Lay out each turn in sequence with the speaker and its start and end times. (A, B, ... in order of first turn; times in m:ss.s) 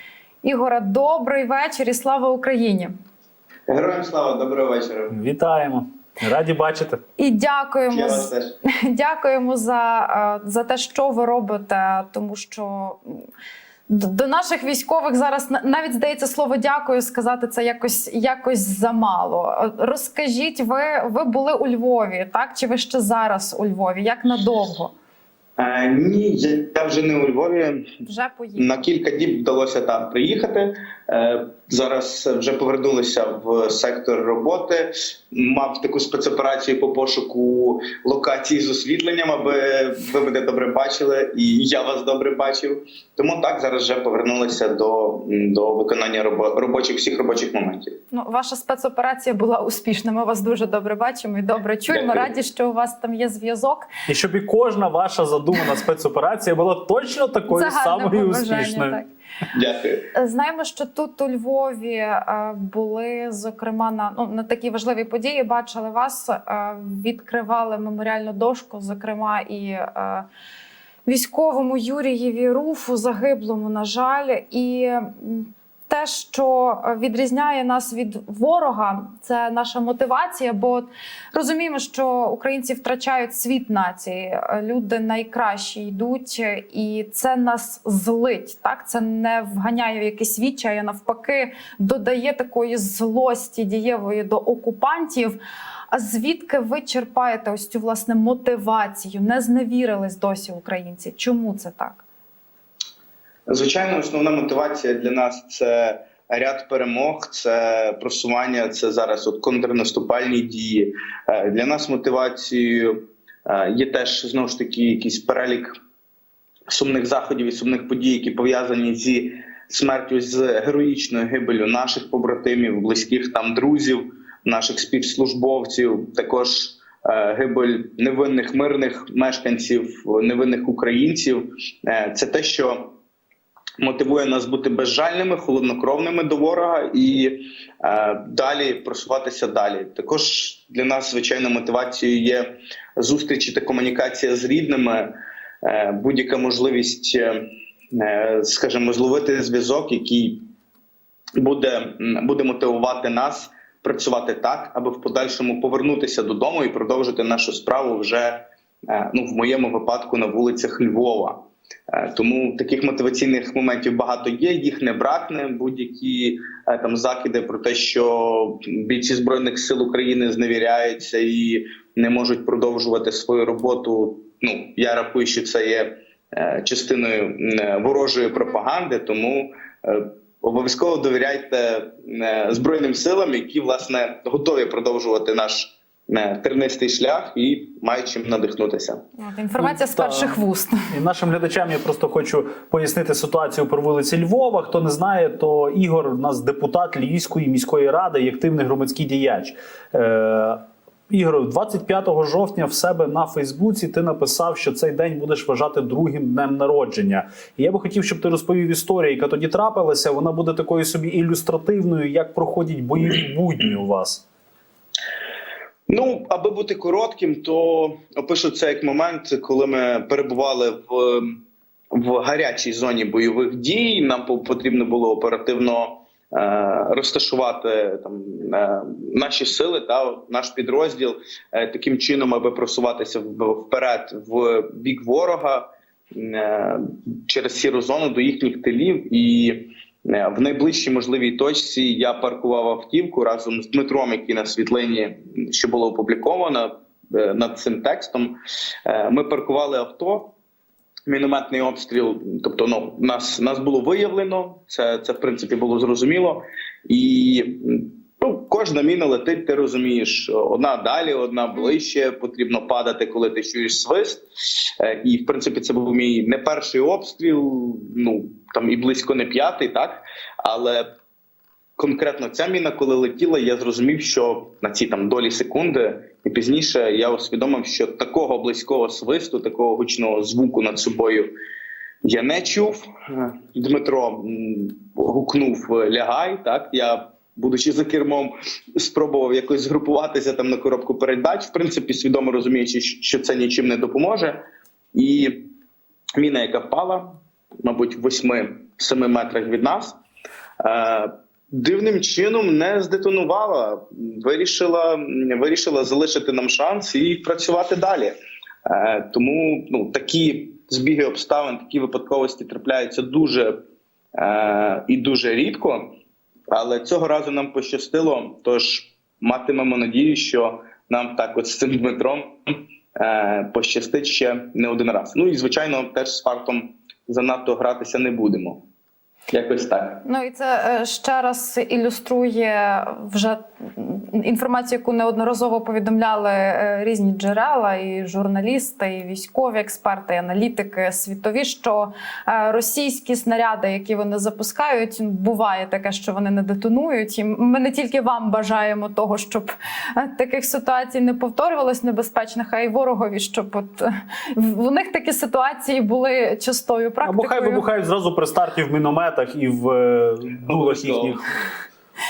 0:00.4-0:02.9 A
0:03.7-0:05.2 B
0:05.1-0:07.0 C
0:07.2-0:13.2 A
0:07.9-0:08.5 B
0:13.9-0:24.9 A
0:25.6-0:27.9 B
0:28.0-0:28.8 A
0:28.6-0:48.0 B
0:48.1-0:53.9 A
0:51.9-0:52.3 B
0:54.1-0:59.0 C
0:57.5-0:59.1 A
0:59.5-1:00.0 B
1:00.1-1:10.2 A
1:11.0-1:35.4 A
1:35.9-1:42.0 A
1:43.5-1:55.7 B
1:56.7-2:12.9 B
2:13.8-2:25.1 B
2:25.6-2:30.4 B
2:31.4-3:09.0 B
3:09.2-3:10.8 A
3:09.6-3:10.4 C
3:10.9-3:20.6 C
3:21.1-3:34.2 C
3:35.9-3:41.3 B
3:41.9-4:08.3 B
4:08.8-4:10.3 B
4:11.1-4:30.9 B
4:31.8-4:41.3 B
4:42.0-4:54.4 B
4:54.9-4:55.5 B
4:56.2-4:57.1 B
4:57.6-5:00.0 B
5:00.6-5:08.1 B
5:08.6-5:13.6 B
5:14.2-5:15.9 B
5:16.5-5:28.6 B
5:29.3-5:30.0 B
5:30.0-5:57.6 A
5:57.0-6:01.2 C
6:00.4-6:01.2 B